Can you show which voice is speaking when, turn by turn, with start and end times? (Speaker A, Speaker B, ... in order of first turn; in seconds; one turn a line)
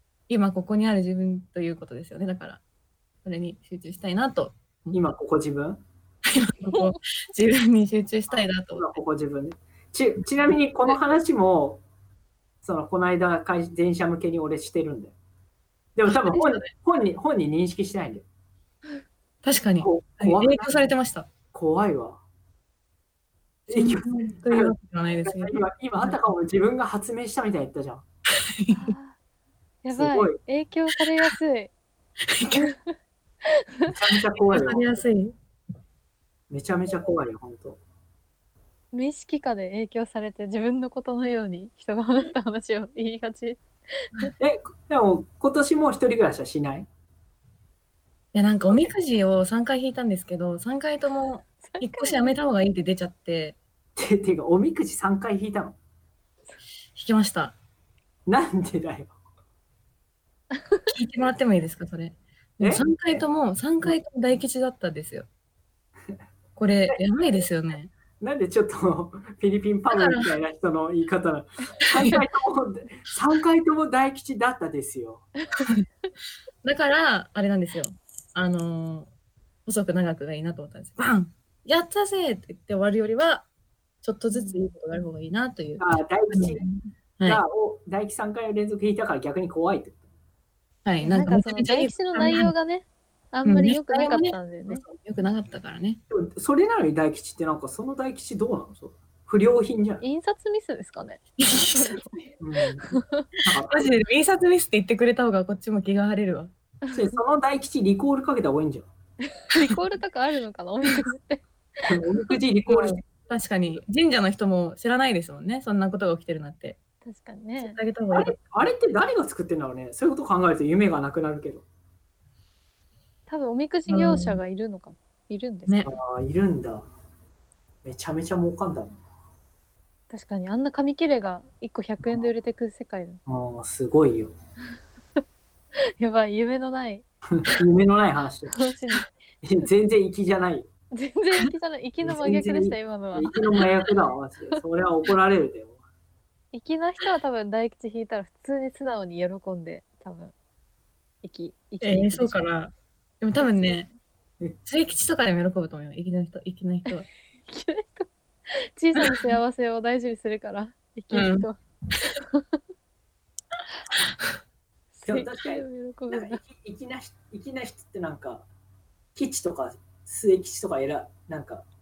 Speaker A: 0.3-2.6
Speaker A: 3.2-5.0
Speaker B: 4.9-5.8
Speaker A: 6.3-9.0
Speaker B: 8.7-11.8
Speaker B: 12.6-15.1
Speaker B: 15.9-18.2
Speaker A: 16.3-16.7
Speaker A: 19.4-21.3
Speaker B: 19.8-20.8
Speaker B: 21.5-22.2
Speaker B: 23.7-28.0
Speaker A: 23.7-26.2
Speaker A: 28.4-28.9
Speaker C: 28.7-29.1
Speaker C: 29.8-31.7
Speaker B: 29.9-30.4
Speaker A: 32.3-32.7
Speaker C: 32.5-32.8
Speaker C: 33.4-33.9
Speaker B: 33.9-34.9
Speaker A: 34.5-35.3
Speaker B: 36.5-37.8
Speaker C: 38.9-44.3
Speaker B: 44.4-46.9
Speaker A: 48.3-53.6
Speaker C: 51.7-52.3
Speaker B: 54.0-55.8
Speaker A: 56.9-57.5
Speaker B: 58.3-59.1
Speaker C: 60.5-60.8
Speaker A: 60.9-65.3
Speaker B: 62.6-63.2
Speaker A: 66.5-67.9
Speaker B: 68.2-75.2
Speaker A: 69.9-70.3
Speaker A: 71.9-72.2
Speaker A: 76.6-79.1
Speaker A: 79.7-83.5
Speaker A: 84.0-87.4
Speaker C: 84.3-84.6
Speaker B: 85.8-86.6
Speaker B: 87.2-90.0
Speaker A: 90.8-92.5
Speaker C: 91.0-94.8
Speaker A: 93.4-96.0
Speaker B: 96.1-100.0
Speaker C: 100.0-102.1
Speaker A: 101.4-102.1
Speaker B: 102.4-103.9
Speaker C: 102.9-103.2
Speaker A: 103.7-106.5
Speaker B: 106.9-108.9
Speaker C: 109.5-112.0
Speaker B: 111.9-113.0
Speaker A: 112.7-116.8
Speaker C: 117.0-117.8
Speaker A: 117.6-118.3
Speaker B: 118.1-121.6
Speaker C: 123.3-125.9
Speaker A: 123.9-124.4
Speaker B: 125.8-126.9
Speaker B: 127.8-129.0
Speaker C: 130.1-133.2
Speaker B: 133.3-134.3
Speaker C: 136.0-137.0
Speaker B: 137.3-138.7
Speaker C: 138.5-139.1
Speaker B: 139.4-140.7
Speaker C: 140.9-143.7
Speaker B: 142.0-145.8
Speaker C: 146.5-150.3
Speaker C: 151.2-152.4
Speaker A: 151.8-153.9
Speaker C: 153.4-153.9
Speaker A: 154.6-157.0
Speaker C: 157.5-161.6
Speaker A: 158.9-159.3
Speaker A: 161.1-161.5
Speaker C: 162.1-162.6
Speaker C: 164.9-166.4
Speaker B: 165.1-168.4
Speaker B: 169.1-171.6